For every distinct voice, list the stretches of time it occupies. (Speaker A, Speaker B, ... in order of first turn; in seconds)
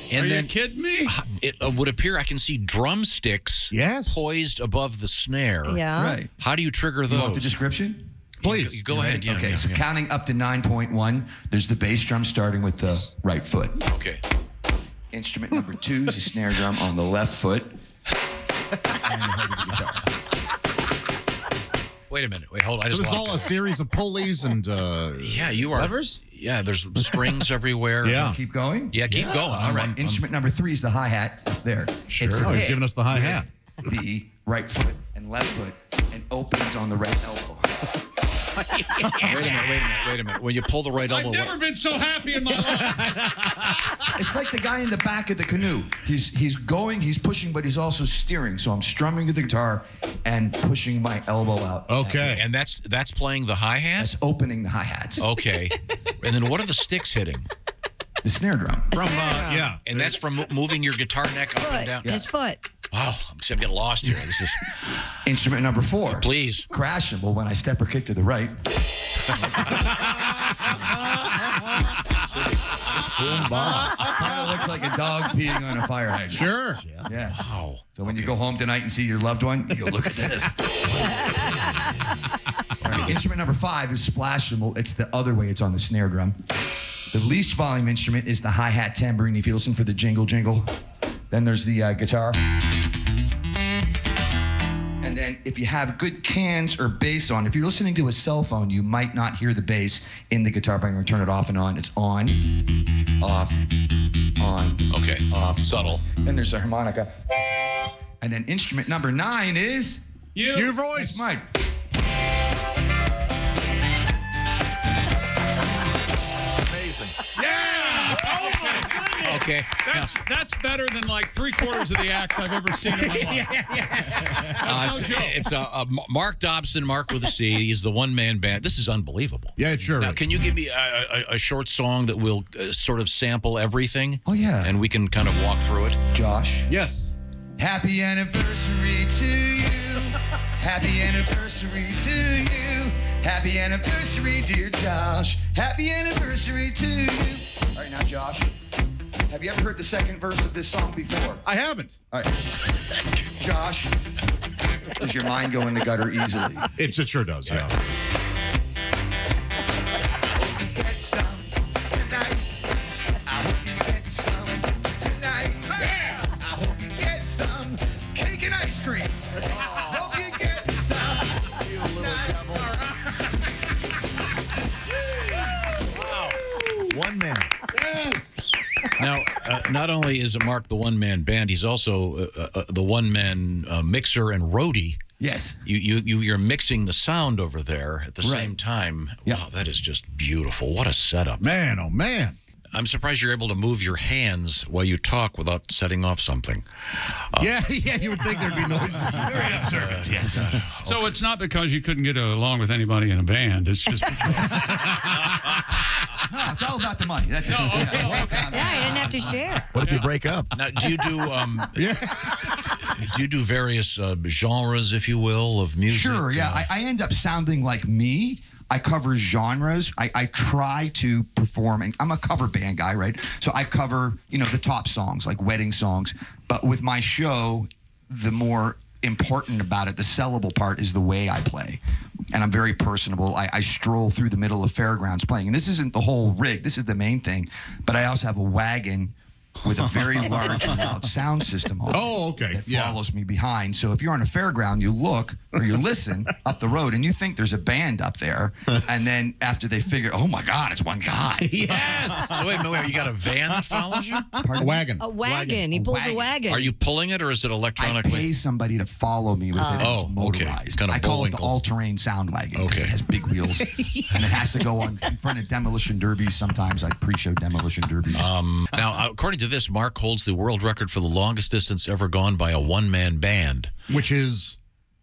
Speaker A: 0.1-0.5, 1.1-5.8, 6.4-7.5, 8.4-9.9, 13.8-14.2, 22.1-23.6, 25.2-28.4, 28.9-30.2, 32.1-32.6, 38.7-41.5, 52.3-54.1, 55.2-57.5, 59.9-62.2, 62.9-65.0, 66.1-66.7, 77.3-78.4, 104.9-106.0, 119.2-120.2, 124.6-136.0, 179.0-185.0, 185.7-191.4, 192.7-197.5, 199.4-201.2, 205.0-205.8, 210.5-216.7, 251.6-254.3, 256.5-258.3, 259.8-261.6, 262.5-263.0, 268.1-273.7
Speaker B: 0.2-1.1, 41.1-43.2, 110.3-110.8, 117.5-123.6, 124.6-125.4, 199.2-200.3, 200.8-205.1, 207.4-208.8, 209.8-210.1
Speaker C: 3.7-4.2, 8.4-8.8, 22.9-25.9, 28.0-28.4, 32.3-33.5, 39.2-39.6, 42.7-44.0, 51.9-52.5, 58.9-60.1, 69.9-70.7, 76.3-76.8, 110.5-111.3, 117.2-119.4, 123.0-125.1, 129.6-130.3, 136.7-137.2, 151.4-152.0, 156.8-157.8, 177.7-178.5, 191.4-192.4, 197.4-199.8, 204.2-205.2, 211.7-213.0, 239.7-240.6, 241.9-243.0, 251.4-252.7, 253.7-255.1, 263.6-264.4, 273.9-274.6
Speaker D: 5.7-6.2, 58.9-59.7, 61.6-62.7, 208.5-209.9, 255.0-256.7, 259.6-259.9
Speaker E: 5.9-6.3, 7.1-8.1, 8.9-13.8, 15.1-17.7, 19.0-20.1, 28.1-37.7, 44.1-52.3, 54.0-55.2, 58.2-59.0, 65.2-68.6, 73.2-81.2, 82.8-86.4, 87.1-90.7, 91.3-92.4, 95.0-102.6, 103.2-103.6, 104.4-107.1, 108.2-110.0, 110.9-111.5, 134.3-134.8, 136.1-136.7, 137.6-148.6, 149.3-151.4, 152.1-152.4, 153.4-154.0, 154.9-156.7, 160.4-162.6, 163.2-172.8, 185.2-185.6, 188.2-188.5, 206.3-209.4, 215.9-231.8, 232.3-252.0, 254.4-256.3, 257.8-268.3
Speaker F: 25.9-26.1, 73.0-74.1, 76.8-77.1, 116.7-117.2, 177.1-177.5, 209.7-210.5